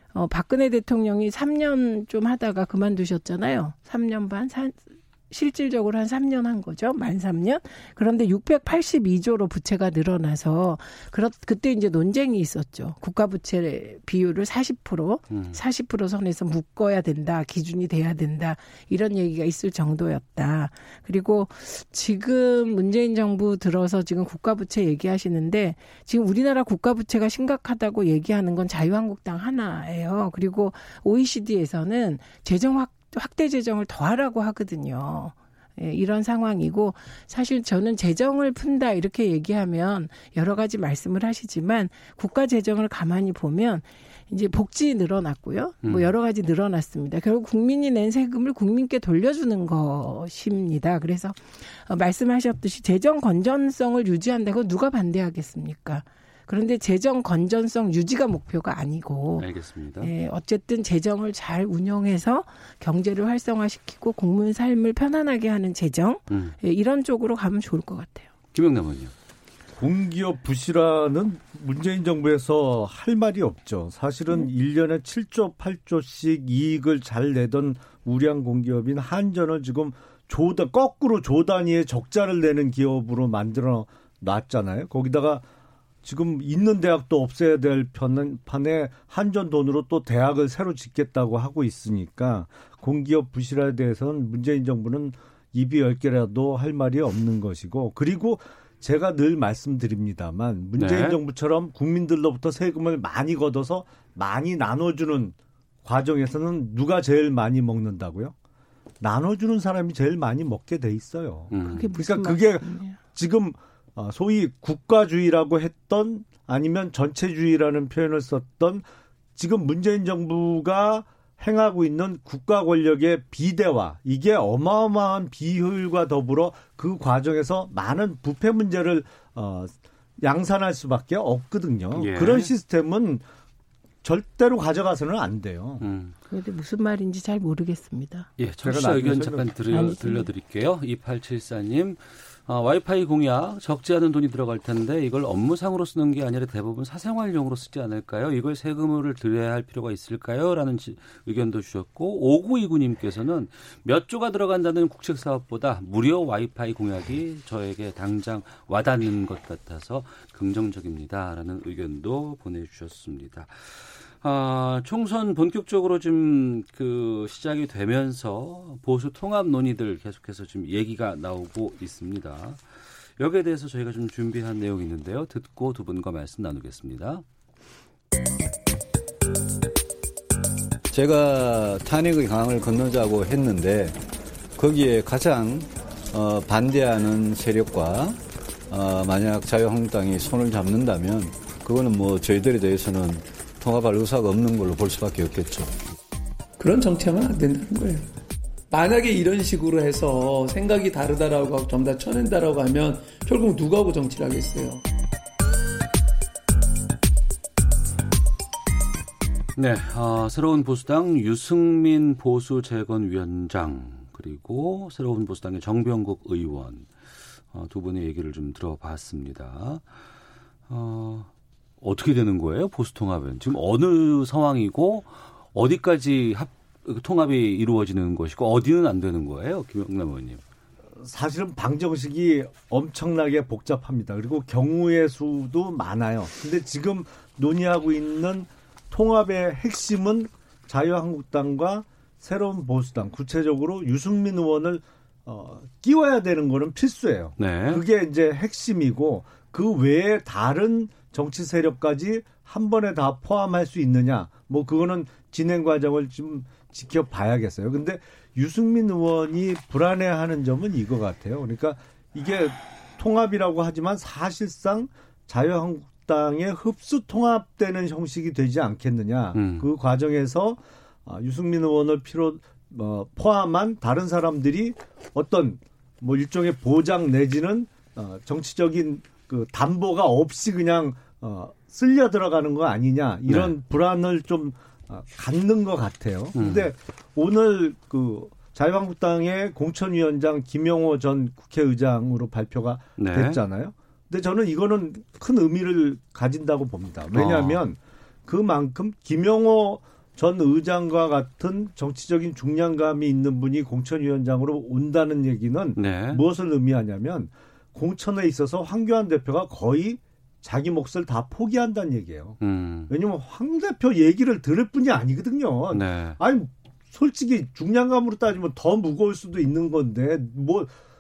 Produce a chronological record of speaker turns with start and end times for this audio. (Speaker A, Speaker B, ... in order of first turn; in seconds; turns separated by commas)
Speaker A: 0.1-59.5, Speaker B: 15.3-15.6, Speaker B: 45.8-46.1, Speaker B: 59.4-60.1, Speaker A: 60.0-68.3, Speaker B: 66.3-66.6, Speaker B: 68.5-69.1, Speaker C: 69.8-85.5, Speaker C: 86.0-108.3, Speaker B: 100.8-101.2, Speaker C: 109.0-118.8, Speaker B: 111.5-112.0, Speaker A: 111.7-113.0, Speaker C: 119.3-133.2, Speaker B: 131.9-132.5, Speaker C: 134.0-135.8, Speaker B: 135.8-136.2, Speaker A: 136.3-138.3, Speaker B: 138.4-177.2, Speaker C: 138.6-139.5, Speaker A: 139.7-140.3, Speaker D: 180.9-184.0, Speaker D: 184.6-195.7, Speaker E: 196.6-198.1, Speaker E: 198.7-204.8, Speaker B: 209.6-216.9, Speaker B: 217.5-219.8, Speaker B: 220.7-221.3, Speaker B: 221.8-230.4, Speaker C: 231.0-320.7, Speaker B: 247.4-247.8, Speaker B: 269.3-269.7, Speaker B: 283.3-283.5, Speaker B: 286.4-286.7, Speaker B: 293.0-293.4, Speaker B: 297.1-297.6, Speaker B: 305.8-306.2, Speaker B: 312.4-312.9, Speaker B: 315.7-316.2